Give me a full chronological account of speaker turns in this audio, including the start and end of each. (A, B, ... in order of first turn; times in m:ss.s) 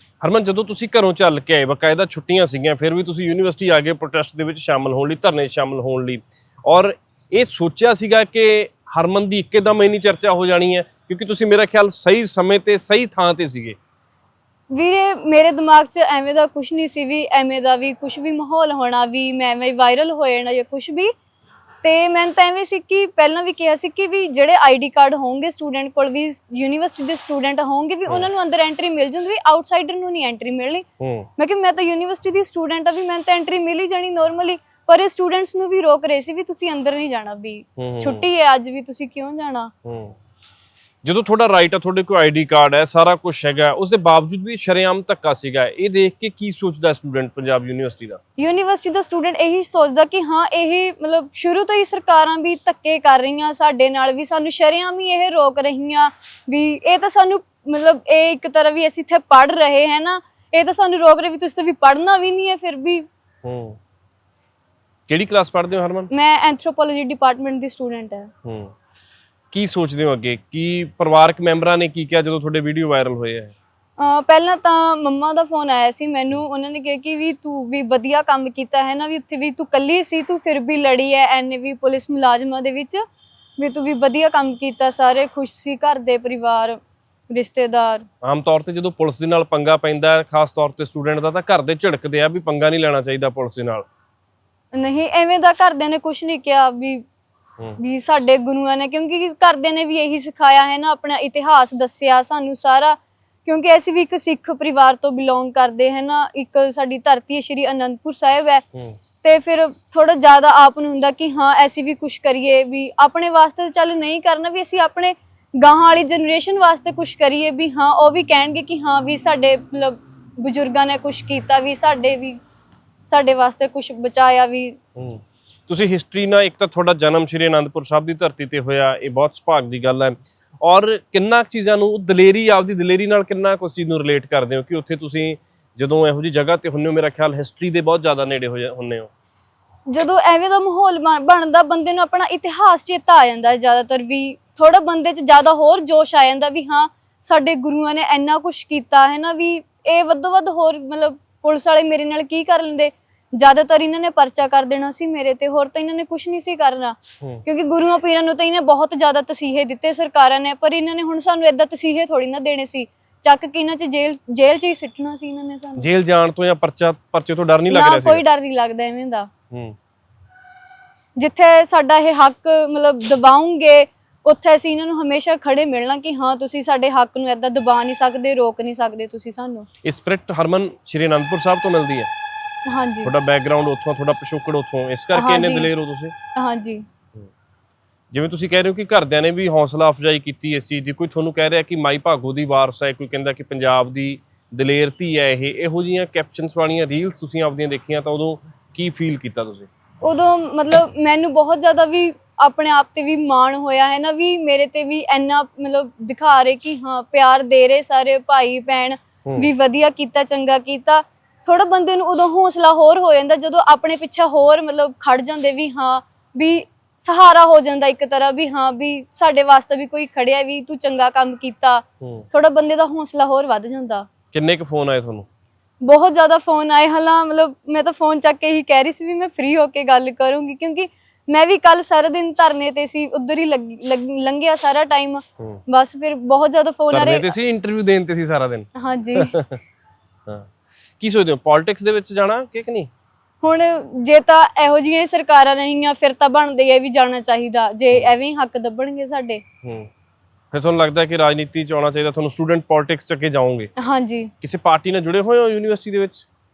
0:00.2-0:13.8 A
0:14.7-0:21.1 B
0:21.8-0:30.8 B
0:31.0-0:31.3 A
0:31.4-0:39.7 B
0:37.8-0:38.2 A
0:39.8-0:40.2 A
0:41.0-0:48.2 A
0:48.4-1:03.0 B
1:03.4-1:03.8 A
1:05.1-1:06.1 A
1:06.1-1:08.3 B
1:08.4-1:08.7 A
1:09.5-1:13.5 A
1:14.0-1:23.0 B
1:23.6-1:26.8 B
1:27.3-1:28.1 B
1:28.2-1:33.8 A
1:34.7-1:37.0 B
1:37.8-1:48.6 B
1:49.2-2:02.4 B
2:03.1-2:04.8 B
2:05.0-2:19.1 A
2:19.9-2:45.8 B
2:45.8-2:48.2 A
2:47.7-2:49.3 B
2:49.5-2:49.8 A
2:51.2-2:59.7 B
2:59.8-3:02.1 A
3:02.6-3:03.1 B
3:03.0-3:06.1 A
3:05.1-3:05.7 B
3:06.3-3:06.8 B
3:08.1-3:19.7 A
3:20.0-3:44.1 B
3:42.0-3:42.3 A
3:44.3-3:45.2 A
3:45.8-3:57.3 B
3:56.9-3:59.6 A
3:58.8-3:59.3 B
4:01.0-4:02.9 A
4:03.4-4:09.4 B
4:09.6-4:09.9 A
4:10.5-4:13.7 A
4:13.8-4:14.3 B
4:14.4-4:16.2 A